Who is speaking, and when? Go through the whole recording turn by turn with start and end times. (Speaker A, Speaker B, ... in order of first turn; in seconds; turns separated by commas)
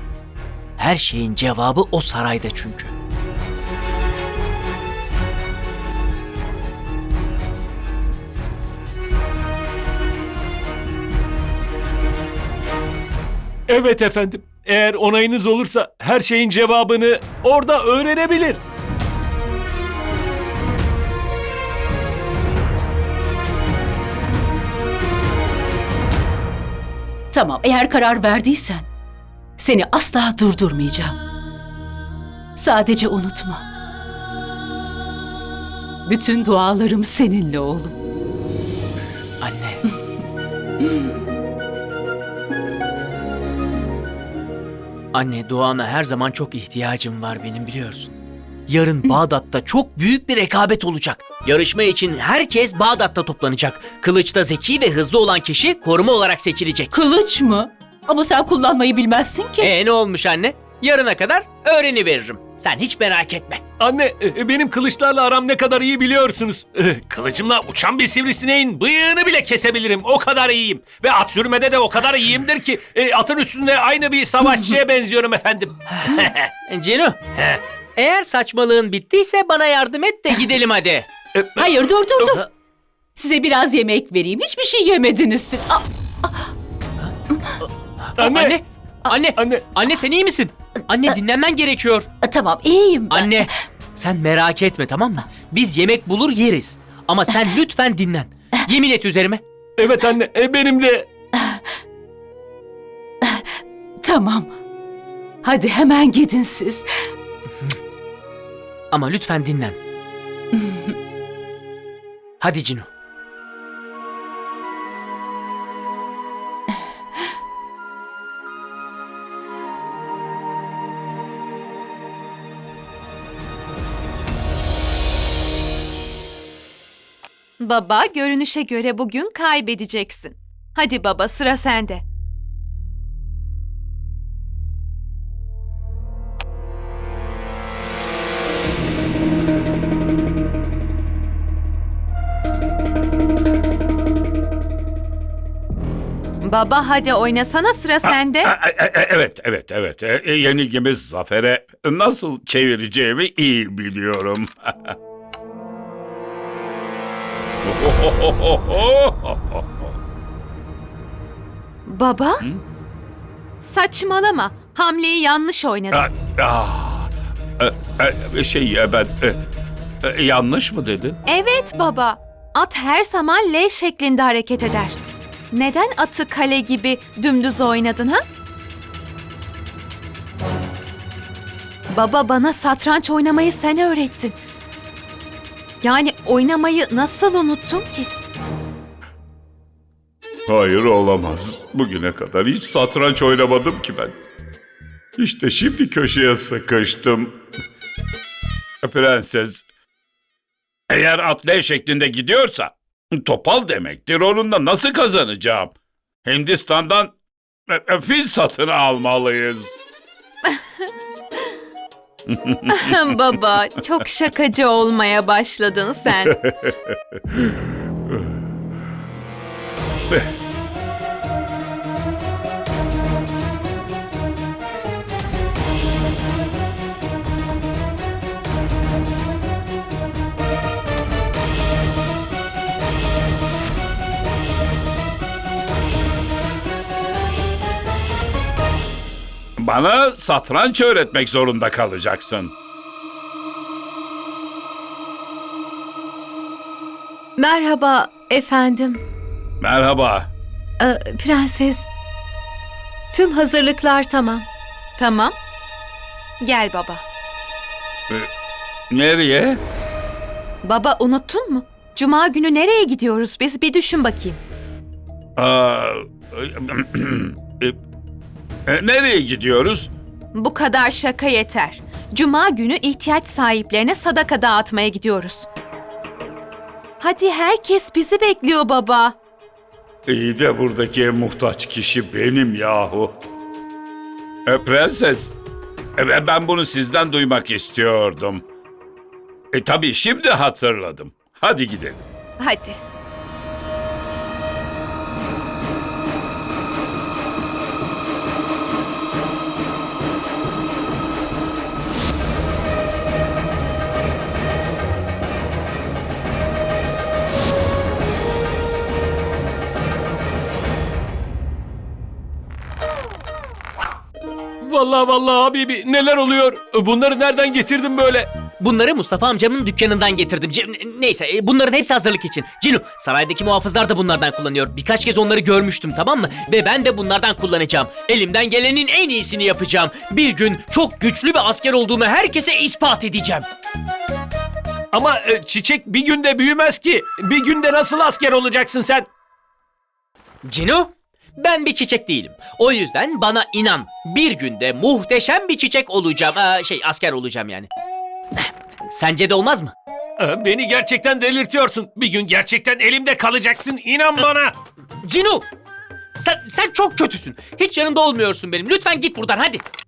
Speaker A: 0.8-2.9, Speaker B: 13.7-18.6, Speaker C: 27.3-28.9, Speaker C: 29.6-31.1, Speaker C: 32.5-33.6, Speaker C: 36.0-38.0, Speaker A: 39.4-39.8, Speaker A: 45.1-48.1, Speaker A: 48.7-56.9, Speaker C: 56.9-59.7, Speaker A: 59.6-63.6, Speaker B: 63.8-76.5, Speaker A: 76.7-81.1, Speaker B: 81.3-81.7, Speaker C: 81.6-82.5, Speaker C: 83.2-86.5, Speaker A: 87.0-92.1, Speaker B: 88.2-88.6, Speaker B: 89.4-89.6, Speaker C: 92.2-93.5, Speaker A: 93.1-99.4, Speaker B: 99.8-101.1, Speaker C: 101.3-101.6, Speaker C: 103.2-104.5, Speaker C: 105.4-106.8, Speaker A: 108.9-109.8, Speaker C: 110.5-110.9, Speaker A: 112.4-112.9, Speaker D: 127.6-132.0, Speaker D: 146.4-148.5, Speaker E: 148.1-154.9, Speaker E: 157.6-159.8, Speaker D: 161.8-162.4, Speaker D: 163.6-166.0, Speaker E: 165.9-169.4, Speaker E: 170.0-171.2, Speaker D: 171.3-175.0, Speaker D: 175.5-178.2, Speaker D: 181.9-184.3, Speaker D: 185.8-188.1, Speaker E: 190.5-194.1, Speaker E: 195.2-197.3, Speaker E: 198.8-199.6, Speaker E: 200.9-205.7, Speaker E: 206.2-207.1, Speaker E: 207.7-209.8, Speaker E: 212.3-212.9, Speaker D: 212.7-216.3, Speaker E: 216.2-217.6, Speaker E: 239.6-242.5, Speaker F: 247.4-249.0, Speaker E: 249.6-250.3, Speaker F: 250.8-251.9, Speaker F: 253.1-254.4, Speaker D: 255.0-255.3, Speaker D: 256.4-257.0, Speaker E: 258.9-259.6, Speaker D: 260.6-264.4, Speaker E: 265.4-267.8, Speaker E: 268.7-269.9, Speaker D: 270.3-275.5, Speaker D: 277.0-279.1, Speaker E: 280.1-283.1, Speaker E: 284.4-285.3, Speaker E: 286.0-288.4, Speaker E: 289.5-292.1, Speaker D: 292.4-292.8, Speaker B: 314.6-318.3, Speaker A: 318.6-333.5, Speaker B: 334.9-339.1, Speaker A: 340.4-347.7, Speaker A: 348.4-349.7, Speaker B: 350.2-354.5, Speaker A: 355.0-355.5, Speaker A: 356.2-359.6